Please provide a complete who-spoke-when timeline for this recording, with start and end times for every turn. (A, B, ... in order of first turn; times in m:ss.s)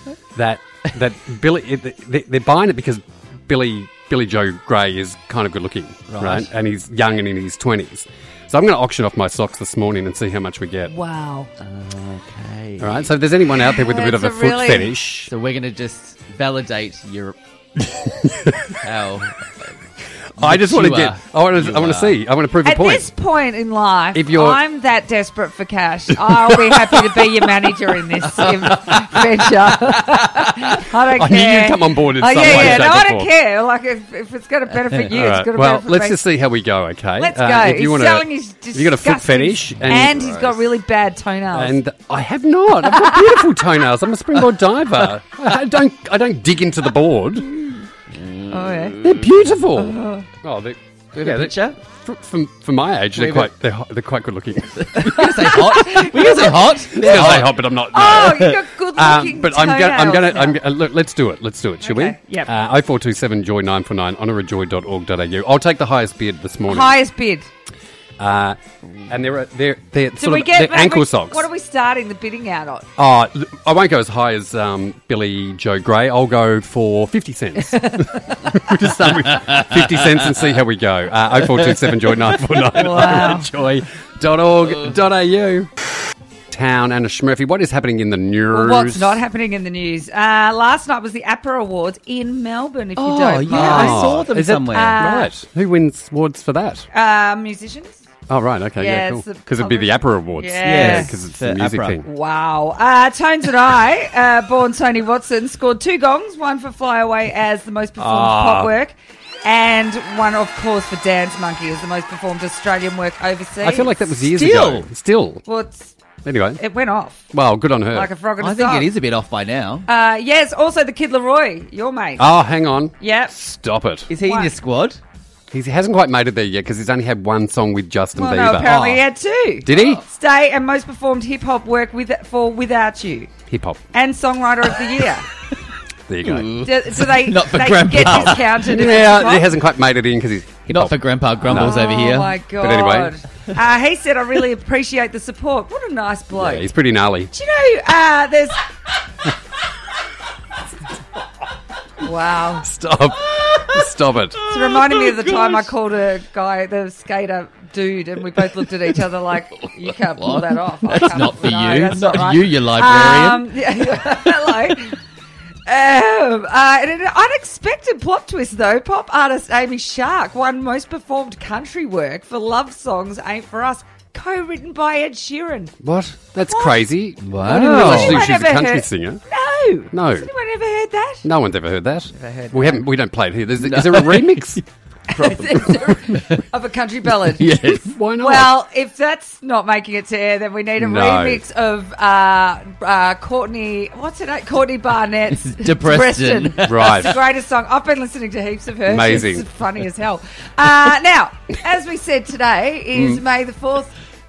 0:00.3-0:10.9 A
0:06.1-0:06.5 B
0:10.9-0:11.5 C
0:11.6-0:13.1 B
0:12.8-0:15.3 A
0:13.6-0:14.9 C
0:15.3-0:17.4 B
0:17.9-0:18.8 A
0:18.8-0:19.7 B
0:20.4-0:23.1 A
0:20.4-0:22.2 B
0:22.6-0:36.2 C
0:24.1-0:24.6 A
0:28.3-0:30.6 B
0:31.0-0:33.3 A
0:35.1-0:40.5 A
0:37.2-0:41.8 C
0:39.8-0:40.6 B
0:41.5-0:47.5 A
0:42.9-0:43.4 C
0:48.1-0:49.4 B
0:48.5-0:49.0 C
0:49.0-0:55.3 A
0:49.8-0:50.3 C
0:51.2-0:51.8 B
0:53.1-0:53.5 B
0:54.8-0:58.6 B
0:55.0-1:00.6 C
0:56.9-1:07.0 A
1:01.8-1:02.5 C
1:06.7-1:07.5 C
1:08.2-1:11.5 A
1:10.2-1:12.9 C
1:13.0-1:25.7 A
1:17.6-1:18.5 C
1:19.3-1:20.4 B
1:22.7-1:23.5 C
1:26.5-1:29.2 A
1:28.5-1:34.1 C
1:33.0-1:35.0 B
1:33.5-1:36.8 A
1:34.7-1:35.3 C
1:36.9-1:38.0 C
1:38.3-1:42.0 A
1:38.8-1:41.1 C
1:40.6-1:42.0 B
1:42.0-1:53.9 C
1:48.0-1:48.7 A
1:53.6-1:55.4 A
1:54.3-1:54.8 B
1:55.4-1:55.9 C
1:56.2-1:56.6 A
1:56.6-1:57.2 C
1:57.3-1:58.1 A
1:57.9-1:58.9 C
1:58.4-1:59.9 B
1:59.9-2:02.3 C
2:02.2-2:04.1 A
2:03.0-2:03.3 C
2:04.1-2:05.0 B
2:04.2-2:04.5 C
2:05.5-2:08.9 A
2:08.2-2:13.3 C
2:08.6-2:09.0 B
2:09.6-2:10.0 A
2:13.5-2:13.8 A
2:13.9-2:15.2 C
2:16.1-2:16.5 A
2:16.2-2:18.7 B
2:16.6-2:19.5 C
2:18.0-2:21.8 A
2:20.7-2:22.3 B
2:21.5-2:26.7 C
2:22.6-2:23.1 A
2:26.3-2:27.3 A
2:27.3-2:28.6 C
2:32.0-2:32.7 C
2:32.6-2:34.4 A
2:34.5-2:45.0 C
2:34.5-2:35.7 B
2:40.2-2:43.5 B
2:45.6-2:55.8 C
2:55.8-2:59.2 A
2:56.4-2:56.8 C
2:57.2-2:58.2 B
2:57.4-3:01.2 C
2:59.9-3:00.3 A
3:01.2-3:04.6 A
3:02.1-3:02.8 C
3:03.6-3:06.4 B
3:05.1-3:07.6 C
3:07.2-3:07.9 B
3:07.6-3:08.5 A
3:08.2-3:23.9 C
3:10.8-3:11.4 A
3:15.3-3:17.0 B
3:16.6-3:17.2 A
3:18.8-3:19.4 A
3:22.9-3:23.2 A